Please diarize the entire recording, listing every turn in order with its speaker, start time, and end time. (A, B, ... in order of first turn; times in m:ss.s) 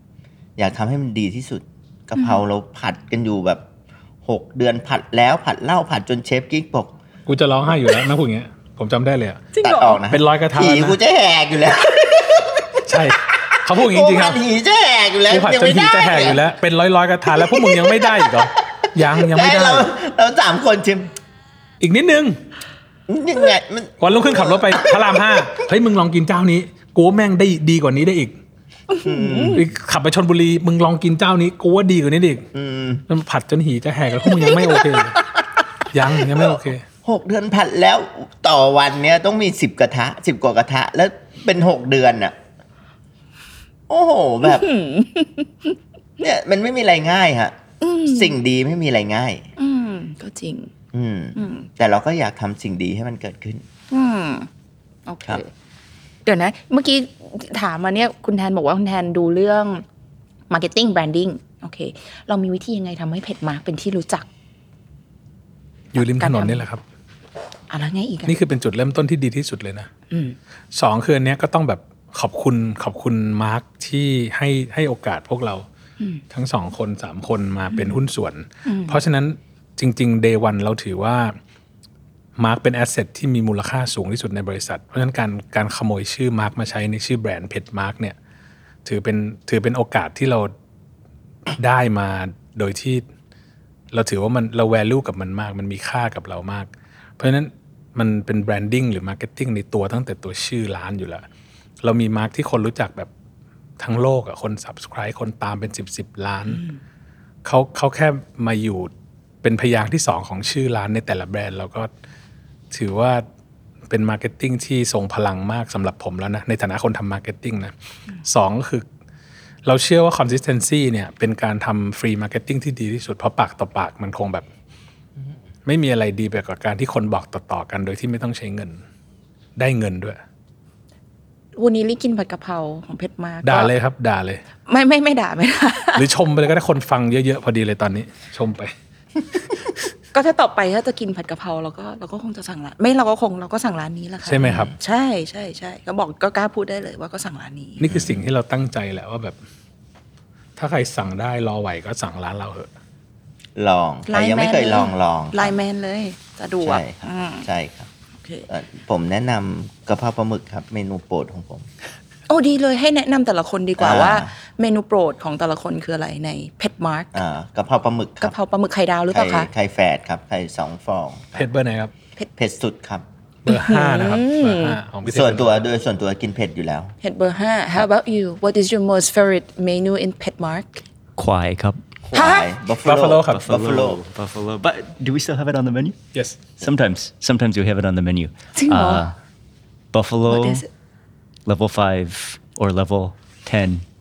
0:00.6-0:03.6 A
0:02.2-0:02.4 B
0:04.2-0:06.9 A
0:07.3-0:09.5 C
0:09.5-0:10.0 B
0:09.6-0:12.7 A
0:10.1-0:11.0 C
0:12.9-0:14.4 C
0:13.7-0:16.4 A
0:15.3-0:19.9 C
0:17.3-0:18.3 A
0:19.0-0:21.1 A
0:21.8-0:22.4 C
0:23.1-0:25.5 A
0:24.0-0:28.4 C
0:28.9-0:29.6 B
0:29.0-0:29.6 A
0:29.5-0:32.5 C
0:32.5-0:33.0 A
0:33.1-0:35.2 C
0:35.9-0:36.8 C
0:36.4-0:42.4 A
0:43.9-0:44.7 A
0:44.4-0:45.8 B
0:46.2-0:49.5 A
0:47.8-0:48.4 B
0:49.6-0:50.7 B
0:50.9-0:53.6 A
0:51.4-0:51.7 B
0:53.9-0:54.5 B
0:55.1-0:55.5 B
0:56.3-0:59.8 B
1:00.5-1:04.3 B
1:05.9-1:06.8 C
1:06.0-1:06.6 B
1:07.7-1:08.4 B
1:08.3-1:09.9 C
1:10.1-1:10.4 B
1:10.7-1:15.7 C
1:16.3-1:21.4 C
1:17.7-1:18.0 B
1:18.7-1:19.0 B
1:22.4-1:28.2 C
1:28.8-1:30.5 C
1:31.5-1:33.0 C
1:33.9-1:41.2 C
1:41.8-1:43.1 C
1:43.8-1:46.6 C
1:46.5-1:46.8 B
1:47.4-1:48.9 C
1:49.4-1:51.9 C
1:52.7-1:53.3 C
1:53.9-1:57.7 C
1:58.2-1:58.9 C
1:59.6-2:04.5 C
2:05.6-2:08.8 C
2:09.6-2:10.2 C
2:11.6-2:13.7 B
2:13.4-2:14.4 C
2:14.7-2:16.1 B
2:16.0-2:18.7 C
2:20.1-2:27.9 B
2:24.3-2:24.7 C
2:24.4-2:24.7 A
2:27.8-2:29.4 C
2:27.9-2:28.2 A
2:30.6-2:32.7 C
2:33.6-2:35.6 A
2:34.1-2:37.5 B
2:36.6-2:37.9 A
2:38.2-2:38.5 B
2:38.5-2:41.7 A
2:42.3-2:47.2 B
2:43.8-2:44.3 A
2:47.1-2:48.3 A
2:48.2-2:49.5 B
2:49.1-2:51.5 A
2:51.4-2:51.9 C
2:52.4-2:53.0 A
2:53.4-2:55.7 C
2:53.5-2:54.8 B
2:55.0-2:56.9 A
2:57.0-3:00.8 B
3:01.2-3:01.8 D
3:02.0-3:04.0 A
3:02.1-3:02.5 B
3:02.8-3:03.4 C
3:03.3-3:06.0 D
3:06.6-3:09.1 D
3:08.6-3:09.1 B
3:09.9-3:10.6 D
3:10.3-3:10.7 B
3:11.5-3:13.8 D